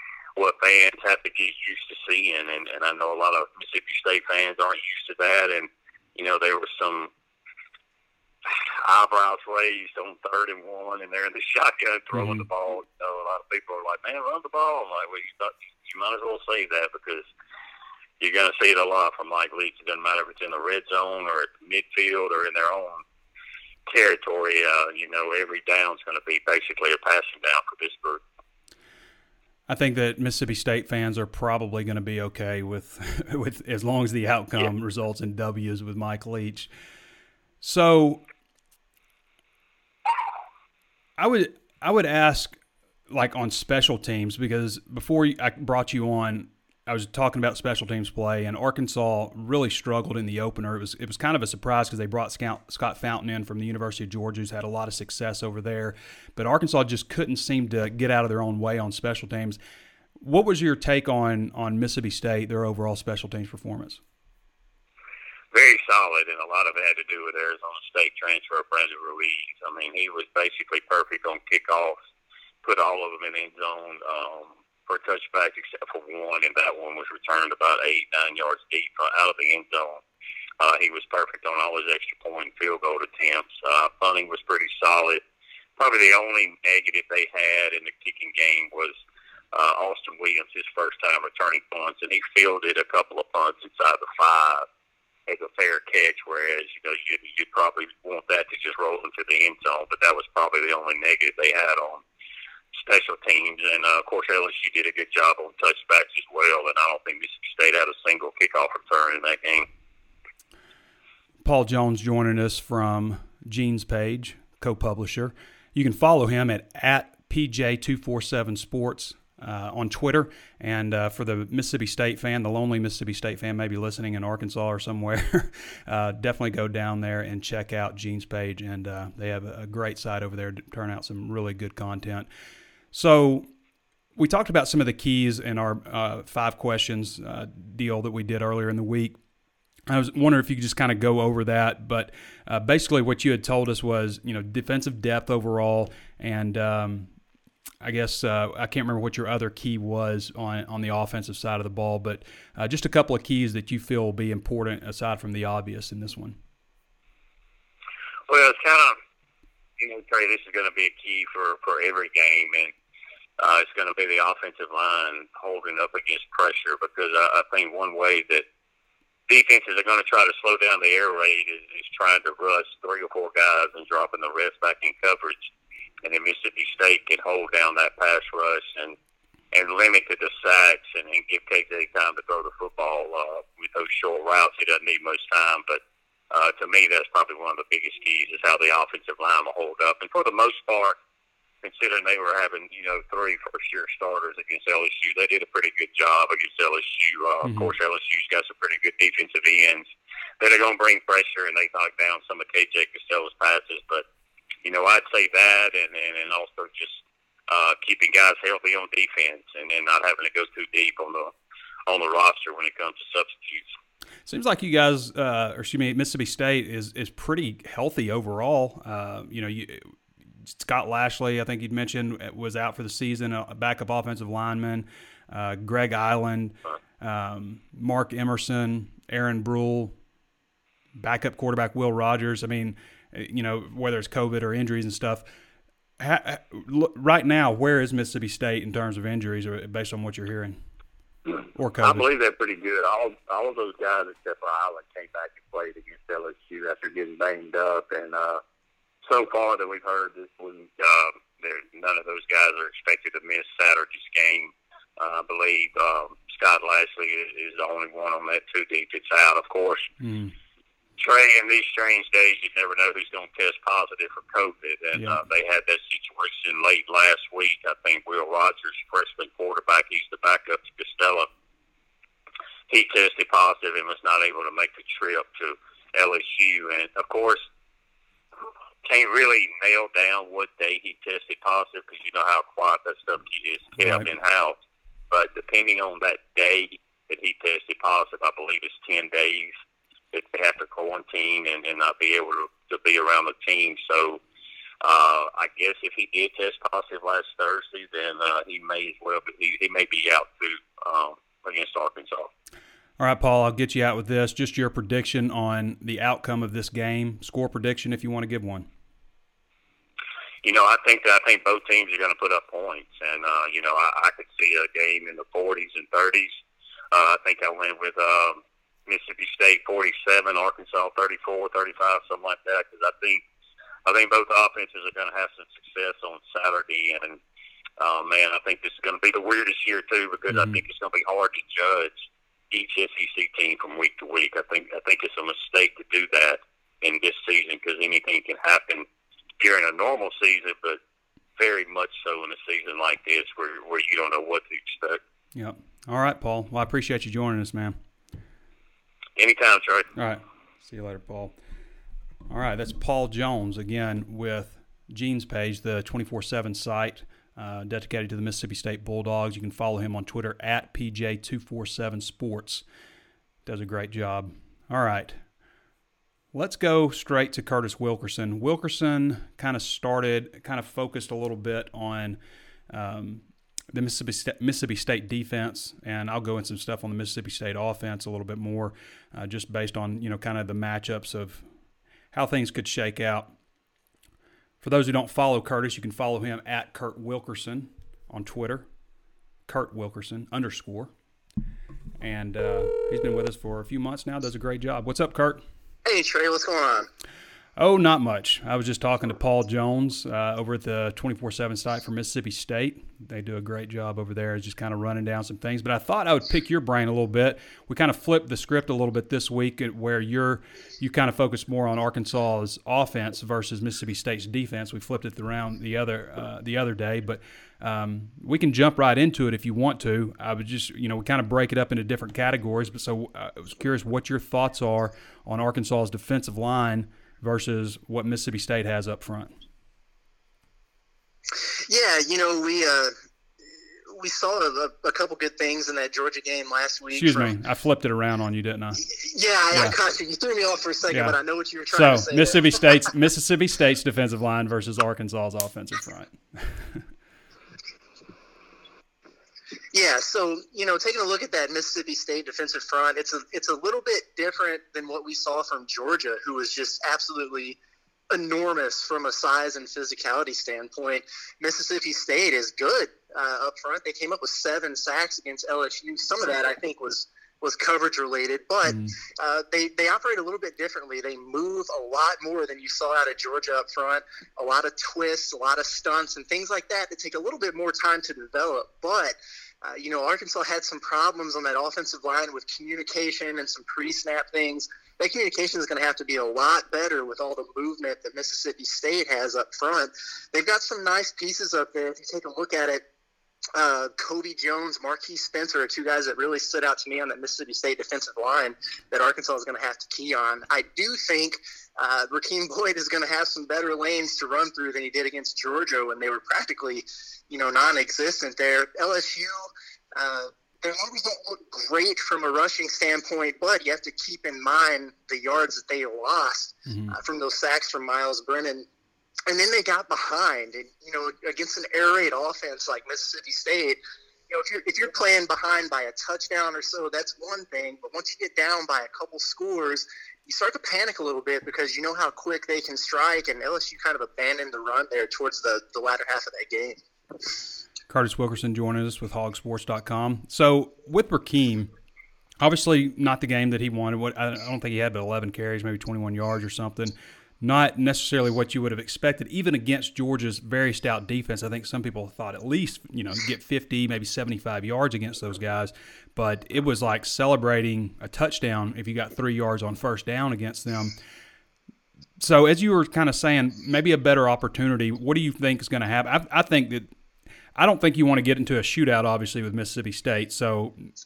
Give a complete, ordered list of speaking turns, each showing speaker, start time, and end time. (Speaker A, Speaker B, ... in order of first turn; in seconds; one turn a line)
Speaker A: 0.3-7.1
Speaker A: 8.4-17.3
Speaker B: 12.1-12.5
Speaker A: 18.2-23.0
Speaker A: 23.9-28.2
Speaker B: 29.7-36.7
Speaker B: 37.6-38.2
Speaker B: 41.2-42.6
Speaker B: 43.1-59.6
Speaker B: 60.2-64.0
Speaker A: 65.5-72.0
Speaker A: 72.6-80.0
Speaker A: 80.6-85.2
Speaker A: 85.8-88.9
Speaker A: 89.5-94.7
Speaker A: 95.3-102.0
Speaker A: 102.7-109.7
Speaker B: 111.4-132.3
Speaker B: 132.9-133.5
Speaker B: 134.2-139.2
Speaker B: 139.9-147.1
Speaker B: 147.8-156.4
Speaker A: 158.3-159.0
Speaker A: 159.8-162.7
Speaker A: 163.4-168.4
Speaker A: 169.3-175.5
Speaker A: 176.0-178.9
Speaker A: 179.5-191.0
Speaker A: 191.6-199.9
Speaker B: 197.4-197.7
Speaker A: 200.4-204.0
Speaker A: 204.6-211.3
Speaker A: 211.9-213.7
Speaker B: 214.2-219.9
Speaker B: 220.4-229.9
Speaker B: 230.9-235.2
Speaker B: 236.0-240.6
Speaker B: 241.6-242.1
Speaker A: 241.8-248.4
Speaker A: 249.0-259.9
Speaker B: 260.0-260.3
Speaker A: 261.0-271.3
Speaker A: 272.7-277.4
Speaker A: 278.8-284.6
Speaker B: 283.8-284.1
Speaker A: 285.1-289.5
Speaker A: 290.1-294.2
Speaker A: 294.8-302.3
Speaker B: 303.0-308.7
Speaker A: 310.4-316.3
Speaker A: 316.9-323.2
Speaker A: 323.8-327.2
Speaker A: 327.8-332.0
Speaker B: 330.3-330.6
Speaker A: 332.5-338.9
Speaker A: 339.4-340.8
Speaker A: 341.4-345.0
Speaker B: 345.3-347.8
Speaker A: 349.2-349.9
Speaker B: 350.0-351.3
Speaker B: 352.3-362.6
Speaker B: 363.4-365.2
Speaker B: 366.3-372.2
Speaker B: 372.7-381.4
Speaker B: 382.1-383.4
Speaker B: 384.6-388.7
Speaker B: 389.5-390.9
Speaker B: 392.0-395.4
Speaker C: 395.9-396.9
Speaker B: 397.6-429.3
Speaker C: 431.5-432.9
Speaker C: 433.9-437.4
Speaker B: 436.9-438.8
Speaker C: 438.8-442.9
Speaker B: 439.5-439.8
Speaker B: 440.9-441.1
Speaker B: 441.7-446.8
Speaker C: 449.7-457.6
Speaker C: 458.1-492.8
Speaker B: 468.6-469.0
Speaker C: 493.5-518.7
Speaker B: 516.7-517.0
Speaker C: 519.3-536.8
Speaker B: 537.9-541.7
Speaker B: 542.4-561.0
Speaker B: 562.2-566.9
Speaker B: 567.5-570.9